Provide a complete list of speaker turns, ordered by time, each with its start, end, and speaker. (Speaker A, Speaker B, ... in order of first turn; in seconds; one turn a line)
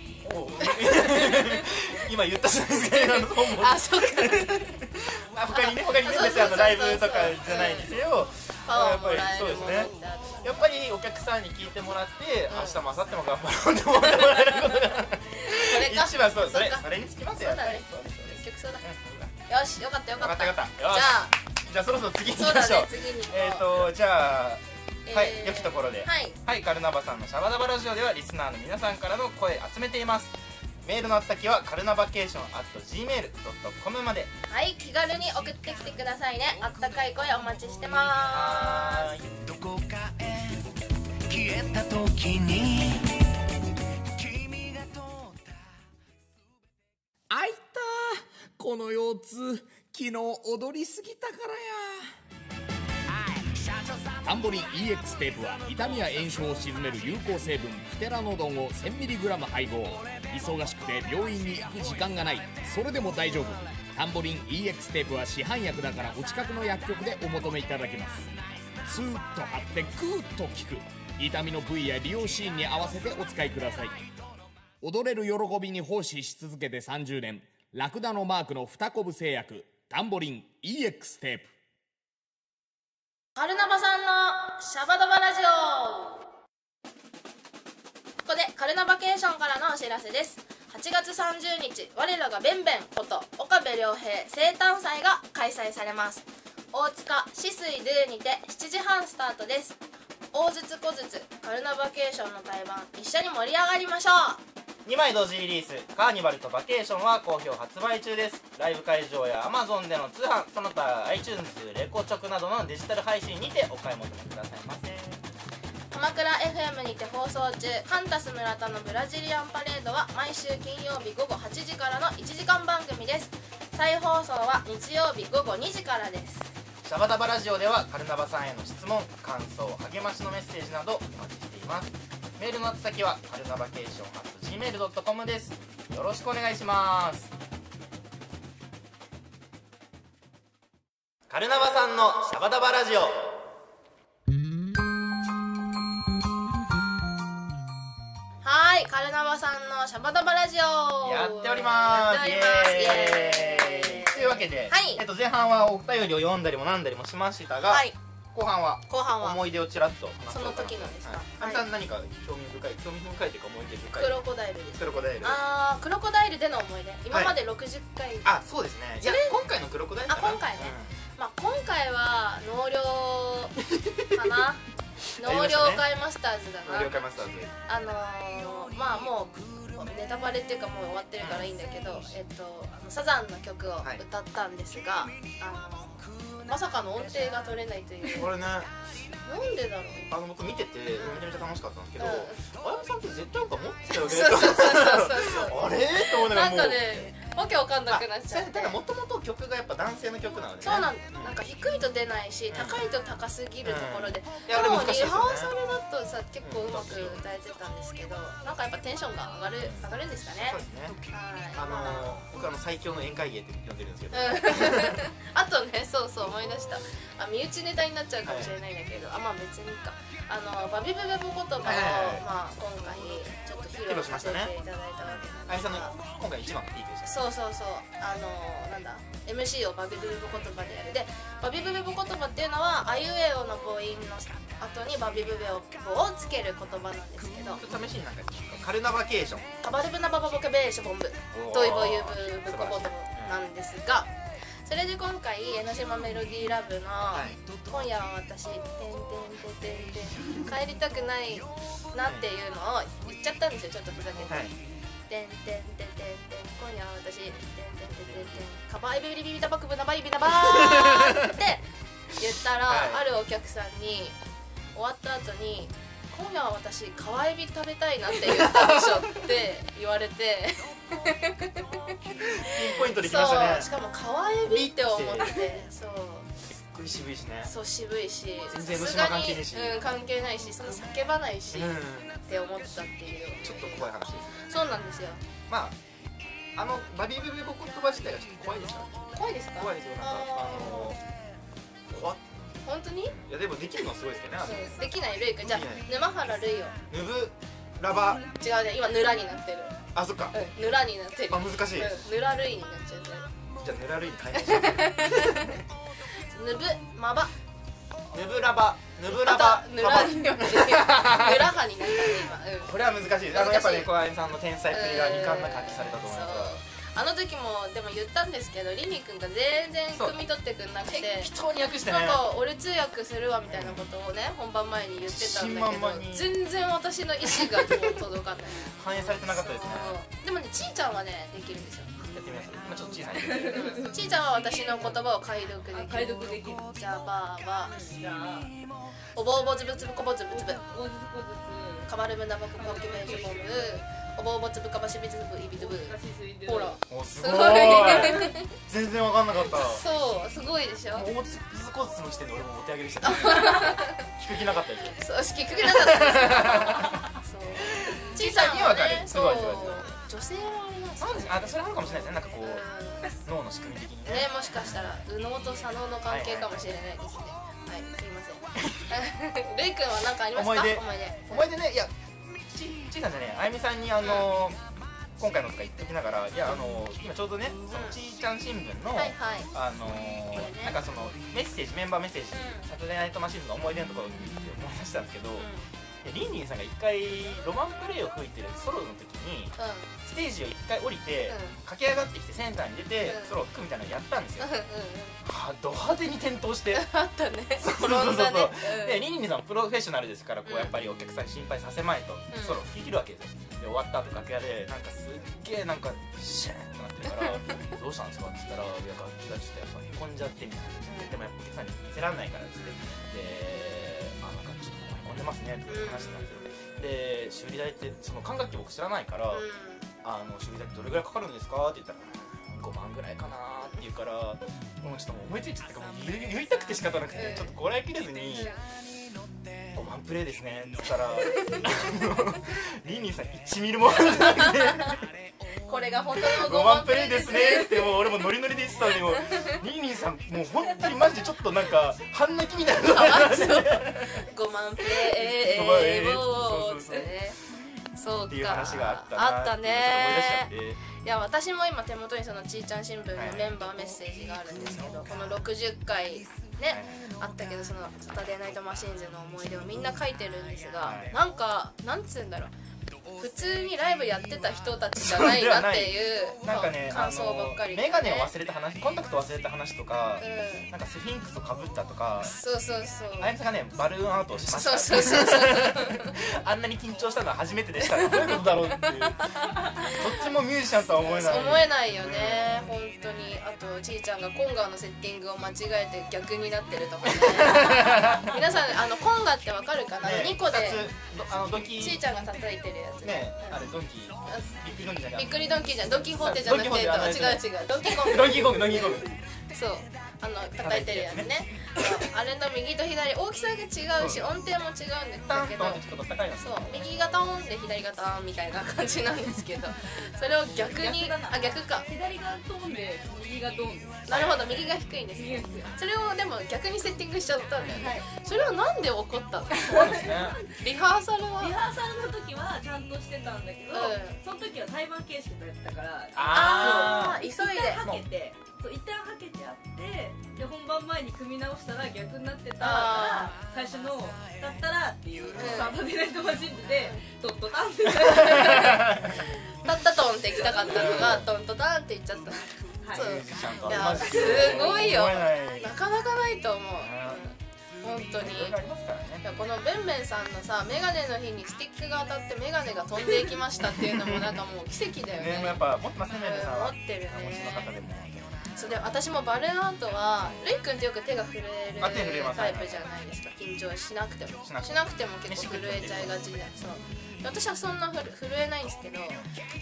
Speaker A: 0.2-19.3
Speaker B: 0.6-1.6
Speaker B: 2.9-4.9
Speaker B: 5.5-7.9
Speaker B: 8.7-10.6
Speaker B: 12.5-12.8
Speaker B: 14.0-17.9
Speaker B: 18.4-18.8
Speaker B: 19.5-21.3
Speaker A: 20.2-34.3
Speaker B: 22.3-23.9
Speaker B: 25.1-26.4
Speaker B: 34.5-39.1
Speaker A: 38.3-39.4
Speaker C: 39.5-40.6
Speaker C: 41.3-43.1
Speaker D: 41.4-42.8
Speaker D: 47.3-52.1
Speaker D: 54.1-74.0
Speaker D: 74.8-81.5
Speaker B: 83.4-86.3
Speaker B: 88.2-99.8
Speaker B: 100.3-104.4
Speaker A: 104.9-115.2
Speaker B: 115.9-126.5
Speaker A: 126.8-137.3
Speaker A: 141.3-143.4
Speaker B: 148.4-155.0
Speaker A: 151.0-164.2
Speaker B: 157.7-158.0
Speaker B: 158.9-159.4
Speaker B: 160.3-161.7
Speaker B: 164.0-168.3
Speaker A: 164.8-165.4
Speaker A: 167.1-167.4
Speaker A: 168.2-170.9
Speaker B: 169.0-169.4
Speaker B: 170.1-173.6
Speaker A: 173.7-174.2
Speaker B: 174.1-174.6
Speaker B: 175.2-177.1
Speaker A: 175.2-175.9
Speaker A: 176.7-177.5
Speaker B: 177.7-188.3
Speaker A: 181.2-181.5
Speaker A: 188.1-188.7
Speaker B: 189.2-190.1
Speaker A: 190.1-197.0
Speaker B: 192.0-192.4
Speaker B: 193.9-198.8
Speaker A: 197.9-201.4
Speaker B: 200.6-212.1
Speaker A: 202.5-202.8
Speaker A: 203.6-205.5
Speaker A: 206.4-207.2
Speaker A: 209.6-211.0
Speaker A: 211.6-215.0
Speaker B: 214.1-225.9
Speaker A: 218.2-218.5
Speaker A: 221.6-222.3
Speaker A: 223.8-224.5
Speaker A: 225.0-227.2
Speaker B: 227.0-237.6
Speaker A: 237.5-239.5
Speaker B: 239.6-244.1
Speaker A: 241.3-243.4
Speaker B: 244.6-254.5
Speaker A: 247.1-247.4
Speaker A: 254.2-254.5
Speaker B: 255.1-264.2
Speaker A: 258.0-258.4
Speaker A: 260.4-261.4
Speaker A: 262.7-263.0
Speaker B: 264.7-271.8
Speaker A: 268.2-269.2
Speaker A: 272.2-273.7
Speaker B: 272.5-276.3
Speaker A: 274.4-275.4
Speaker A: 276.6-277.5
Speaker B: 277.4-285.2
Speaker A: 278.5-279.8
Speaker A: 281.5-282.2
Speaker A: 283.4-284.4
Speaker A: 285.5-285.8
Speaker A: 286.6-289.0
Speaker B: 289.1-291.0
Speaker A: 289.6-291.0
Speaker A: 291.9-292.5
Speaker B: 292.6-293.1
Speaker A: 293.1-294.9
Speaker B: 294.4-296.8
Speaker A: 295.4-295.9
Speaker A: 296.9-298.3
Speaker B: 298.3-299.8
Speaker A: 299.9-300.4
Speaker B: 300.3-303.3
Speaker A: 301.3-302.0
Speaker A: 303.6-305.6
Speaker B: 304.4-305.6
Speaker B: 306.3-307.3
Speaker A: 308.1-316.6
Speaker B: 309.1-312.7
Speaker B: 313.3-313.9
Speaker B: 314.7-321.3
Speaker A: 320.9-322.3
Speaker B: 321.8-331.9
Speaker A: 323.5-323.9
Speaker A: 325.0-326.3
Speaker A: 327.3-327.9
Speaker A: 328.6-330.0
Speaker A: 332.1-334.0
Speaker B: 333.4-337.7
Speaker E: 333.6-333.9
Speaker E: 335.7-336.8
Speaker E: 337.6-338.6
Speaker B: 339.1-340.6
Speaker E: 340.3-341.9
Speaker B: 341.9-348.5
Speaker E: 342.5-343.8
Speaker E: 345.6-346.8
Speaker A: 346.9-349.9
Speaker B: 349.4-351.1
Speaker A: 350.9-355.0
Speaker B: 353.0-354.1
Speaker B: 355.0-361.7
Speaker A: 355.7-356.9
Speaker A: 357.7-359.9
Speaker A: 361.0-364.7
Speaker B: 362.4-363.1
Speaker B: 364.1-371.5
Speaker A: 366.1-366.7
Speaker A: 368.6-368.9
Speaker A: 370.4-374.6
Speaker B: 374.0-374.3
Speaker A: 375.2-385.5
Speaker B: 377.7-378.0
Speaker B: 378.9-379.5
Speaker B: 380.3-380.8
Speaker B: 382.3-382.7
Speaker B: 385.4-385.7
Speaker A: 386.0-389.5
Speaker B: 389.6-389.9
Speaker A: 390.1-394.5
Speaker B: 391.3-391.6
Speaker B: 393.0-393.4
Speaker B: 394.4-395.2
Speaker A: 395.2-396.9
Speaker B: 396.7-399.1
Speaker A: 397.6-419.4
Speaker B: 400.5-400.8
Speaker B: 402.3-402.7
Speaker B: 410.9-411.2
Speaker B: 415.7-416.6
Speaker B: 419.3-419.9
Speaker A: 420.0-428.5
Speaker B: 427.1-427.6
Speaker B: 428.3-428.6
Speaker A: 429.7-435.0
Speaker B: 435.6-437.9
Speaker A: 436.2-444.3
Speaker B: 442.8-447.4
Speaker A: 444.9-447.1
Speaker B: 447.9-462.5
Speaker A: 448.3-450.8
Speaker A: 453.2-453.6
Speaker A: 454.6-455.1
Speaker A: 456.7-457.0
Speaker A: 460.8-461.1
Speaker B: 463.2-468.3
Speaker A: 465.0-472.4
Speaker B: 470.2-470.7
Speaker B: 472.2-473.4
Speaker A: 473.2-479.3
Speaker B: 474.5-476.2
Speaker B: 479.5-480.2
Speaker A: 479.8-482.8
Speaker B: 481.0-490.9
Speaker A: 487.3-488.4
Speaker A: 490.0-492.0
Speaker B: 491.8-493.6
Speaker A: 493.0-499.1
Speaker B: 494.3-494.5
Speaker B: 495.1-499.0
Speaker B: 499.5-505.9
Speaker A: 500.6-501.3
Speaker A: 504.0-504.3
Speaker A: 505.3-506.9
Speaker B: 506.4-511.9
Speaker E: 510.6-514.1
Speaker B: 514.1-521.5
Speaker A: 514.1-514.7
Speaker E: 515.1-515.8
Speaker A: 517.6-517.9
Speaker E: 517.7-518.1
Speaker E: 519.5-520.5
Speaker A: 519.7-520.4
Speaker E: 521.4-539.0
Speaker B: 523.7-524.2
Speaker A: 526.1-527.2
Speaker B: 526.2-527.8
Speaker B: 532.6-533.4
Speaker A: 535.3-535.7
Speaker B: 535.3-535.8
Speaker B: 536.7-537.0
Speaker A: 538.0-539.3
Speaker B: 539.5-548.6
Speaker A: 540.5-541.3
Speaker E: 542.8-543.2
Speaker A: 543.0-545.7
Speaker E: 543.7-544.7
Speaker A: 546.8-547.2
Speaker A: 548.2-549.2
Speaker B: 549.2-557.7
Speaker A: 553.8-554.4
Speaker A: 555.1-558.9
Speaker B: 558.6-569.2
Speaker A: 561.8-562.9
Speaker A: 564.4-564.7
Speaker A: 565.3-566.1